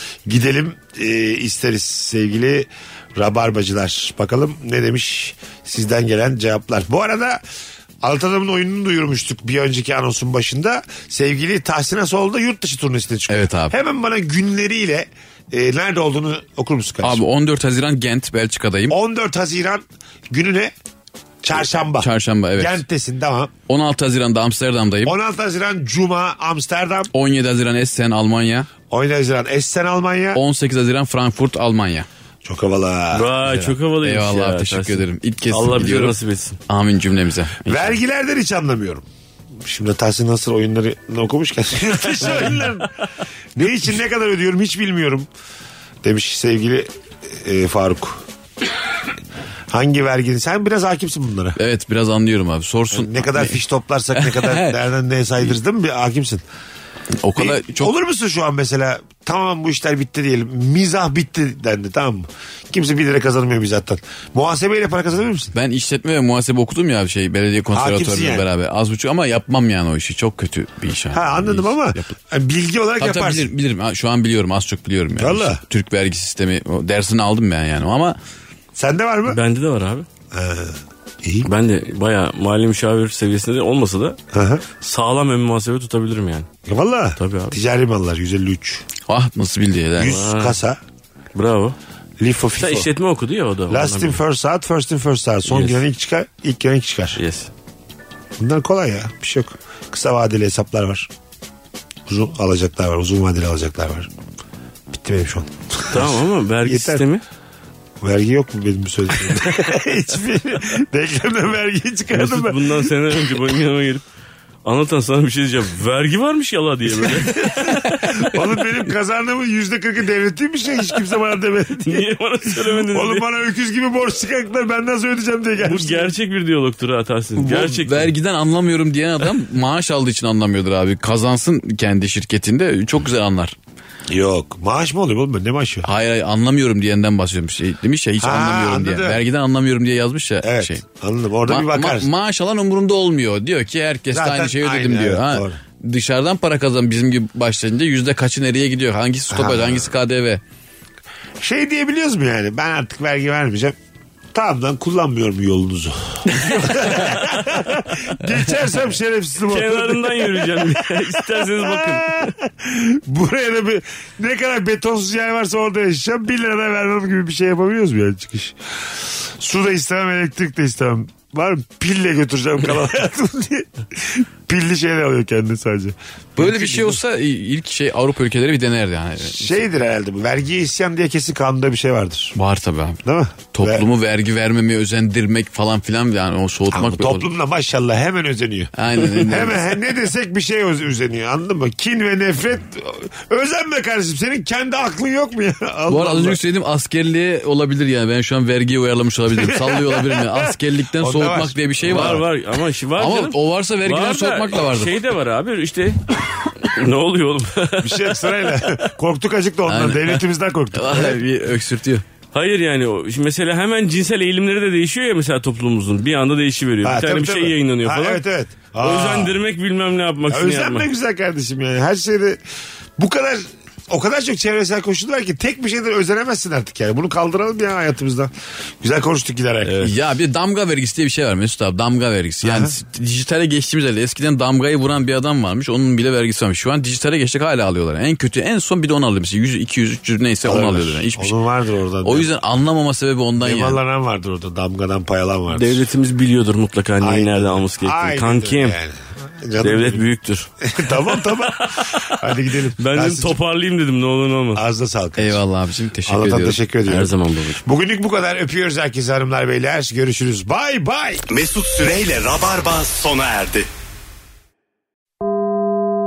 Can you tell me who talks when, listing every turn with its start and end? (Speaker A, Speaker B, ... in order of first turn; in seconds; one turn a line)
Speaker A: 0.3-7.4
Speaker A: 8.0-17.2
Speaker B: 13.3-13.8
Speaker B: 17.0-19.0
Speaker A: 18.9-20.7
Speaker A: 21.4-23.5
Speaker B: 22.0-22.8
Speaker B: 23.7-25.1
Speaker A: 25.0-27.1
Speaker B: 27.1-28.7
Speaker A: 28.9-30.4
Speaker B: 30.3-32.1
Speaker A: 32.4-33.3
Speaker C: 33.1-36.6
Speaker B: 33.5-36.2
Speaker B: 36.7-38.0
Speaker A: 37.7-39.1
Speaker A: 39.6-42.9
Speaker C: 42.2-42.9
Speaker A: 43.6-45.3
Speaker A: 46.0-48.2
Speaker A: 49.7-51.6
Speaker B: 51.6-53.6
Speaker A: 52.9-56.4
Speaker B: 54.1-54.8
Speaker B: 57.2-57.9
Speaker A: 57.4-65.5
Speaker B: 65.5-72.2
Speaker A: 67.7-68.5
Speaker A: 71.1-73.5
Speaker B: 73.0-78.2
Speaker A: 75.2-75.6
Speaker A: 78.8-79.4
Speaker C: 79.3-80.1
Speaker A: 80.3-81.5
Speaker C: 81.5-84.2
Speaker A: 84.3-84.7
Speaker C: 84.8-86.5
Speaker A: 86.7-88.9
Speaker C: 87.2-87.6
Speaker B: 89.0-90.2
Speaker A: 90.0-90.8
Speaker C: 90.0-90.6
Speaker C: 91.3-91.8
Speaker A: 92.2-92.9
Speaker C: 92.6-94.2
Speaker A: 93.7-97.2
Speaker C: 95.5-95.8
Speaker C: 97.2-97.5
Speaker A: 98.4-101.1
Speaker A: 102.1-104.1
Speaker A: 104.9-107.0
Speaker C: 105.9-107.2
Speaker A: 108.0-112.9
Speaker C: 112.1-114.0
Speaker C: 114.7-118.8
Speaker A: 117.0-122.1
Speaker C: 121.8-123.3
Speaker A: 122.6-126.1
Speaker C: 125.6-128.1
Speaker B: 127.4-133.6
Speaker A: 134.1-135.9
Speaker B: 135.8-140.8
Speaker A: 138.2-139.2
Speaker A: 140.4-142.1
Speaker B: 141.5-150.4
Speaker A: 144.1-145.6
Speaker A: 149.3-149.9
Speaker A: 151.4-153.8
Speaker A: 154.3-177.0
Speaker B: 156.4-156.8
Speaker C: 156.5-157.2
Speaker C: 159.5-162.3
Speaker B: 176.4-179.6
Speaker A: 179.2-182.4
Speaker B: 182.3-183.0
Speaker A: 183.0-183.8
Speaker B: 183.5-187.3
Speaker A: 186.7-196.4
Speaker B: 188.8-189.6
Speaker B: 195.9-202.2
Speaker A: 199.3-202.2
Speaker C: 201.9-208.9
Speaker B: 203.0-205.0
Speaker A: 207.8-211.2
Speaker B: 209.7-212.0
Speaker C: 212.3-218.2
Speaker A: 216.8-219.4
Speaker C: 218.8-220.9
Speaker A: 220.3-222.4
Speaker A: 223.0-229.9
Speaker B: 229.8-241.3
Speaker A: 232.4-232.7
Speaker A: 240.4-242.3
Speaker B: 242.0-243.8
Speaker A: 243.4-245.9
Speaker C: 245.5-248.8
Speaker A: 247.0-250.0
Speaker C: 249.6-254.6
Speaker A: 250.6-253.4
Speaker A: 254.6-255.4
Speaker B: 255.2-256.6
Speaker A: 256.1-257.1
Speaker C: 256.9-257.6
Speaker A: 257.6-261.2
Speaker D: 261.3-263.7